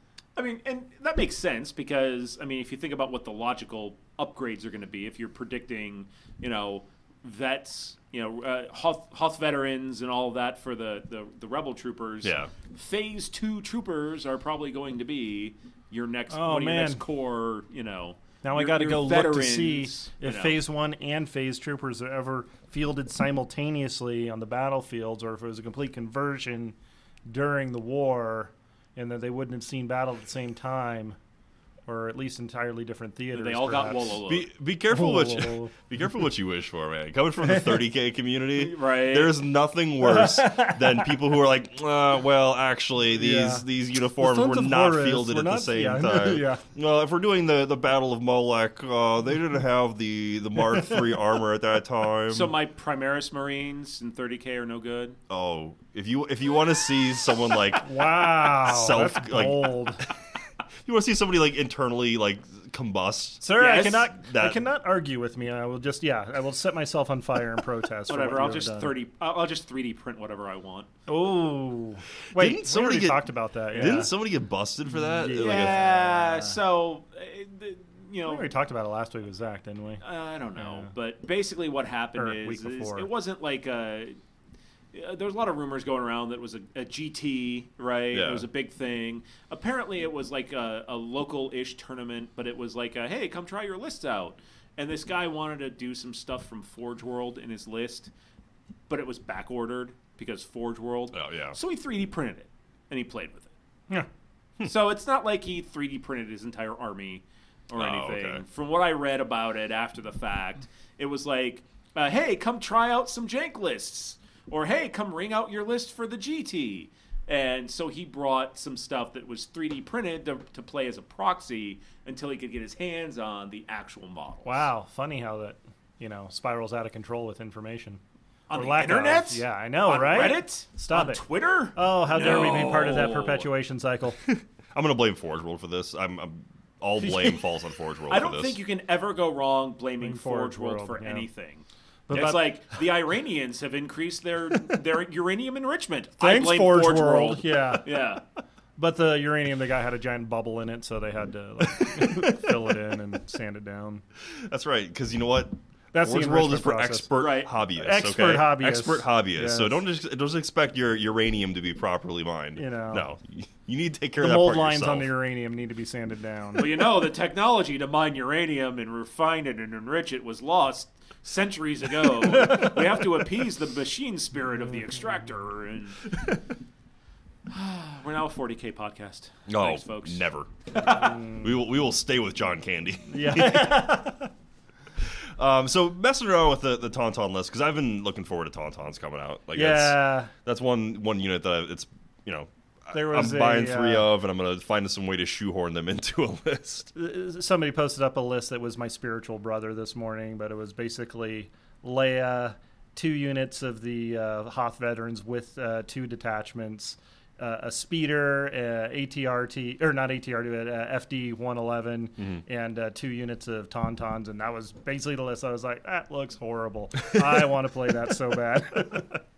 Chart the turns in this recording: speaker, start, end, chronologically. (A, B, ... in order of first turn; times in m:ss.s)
0:00.4-0:20.6 A
0:12.2-0:12.5 B
0:16.3-0:17.0 C
0:18.4-0:26.8 C
0:27.3-0:31.2 C
0:31.9-0:34.2 C
0:33.3-0:34.5 A
0:34.2-0:52.5 B
0:34.9-0:35.7 C
0:38.6-0:39.4 A
0:40.0-0:41.1 C
0:43.1-0:46.6 C
0:52.3-0:55.2 A
0:55.3-1:00.1 B
0:57.8-1:00.0 C
1:00.8-1:04.6 B
1:03.4-1:08.9 C
1:03.6-1:04.1 A
1:08.1-1:10.9 A
1:11.1-1:14.1 C
1:12.3-1:15.8 B
1:13.7-1:14.0 A
1:15.1-1:16.6 C
1:15.4-1:18.5 A
1:18.2-1:20.0 C
1:20.0-1:24.2 A
1:20.6-1:20.9 C
1:22.2-1:23.1 C
1:24.9-1:38.1 A
1:28.1-1:28.5 B
1:38.9-1:43.5 A
1:41.1-1:41.6 B
1:44.6-2:04.7 A
1:47.7-1:48.4 B
2:04.4-2:08.0 C
2:08.5-2:13.5 A
2:08.5-2:14.2 C
2:12.2-2:13.0 B
2:14.2-2:18.6 B
2:17.0-2:17.5 A
2:18.1-2:28.2 A
2:20.0-2:21.3 C
2:22.1-2:22.5 C
2:26.2-2:28.0 C
2:28.8-2:34.0 C
2:31.6-2:32.8 B
2:34.2-2:45.1 B
2:35.9-2:39.8 C
2:37.1-2:37.5 A
2:42.6-2:43.1 C
2:44.2-2:46.7 C
2:46.6-2:56.1 A
2:57.5-3:00.2 A
2:59.5-3:03.9 B
3:00.8-3:01.5 C
3:03.1-3:04.3 C
3:05.0-3:16.9 B
3:09.5-3:10.3 C
3:12.9-3:14.1 C
3:16.9-3:39.2 C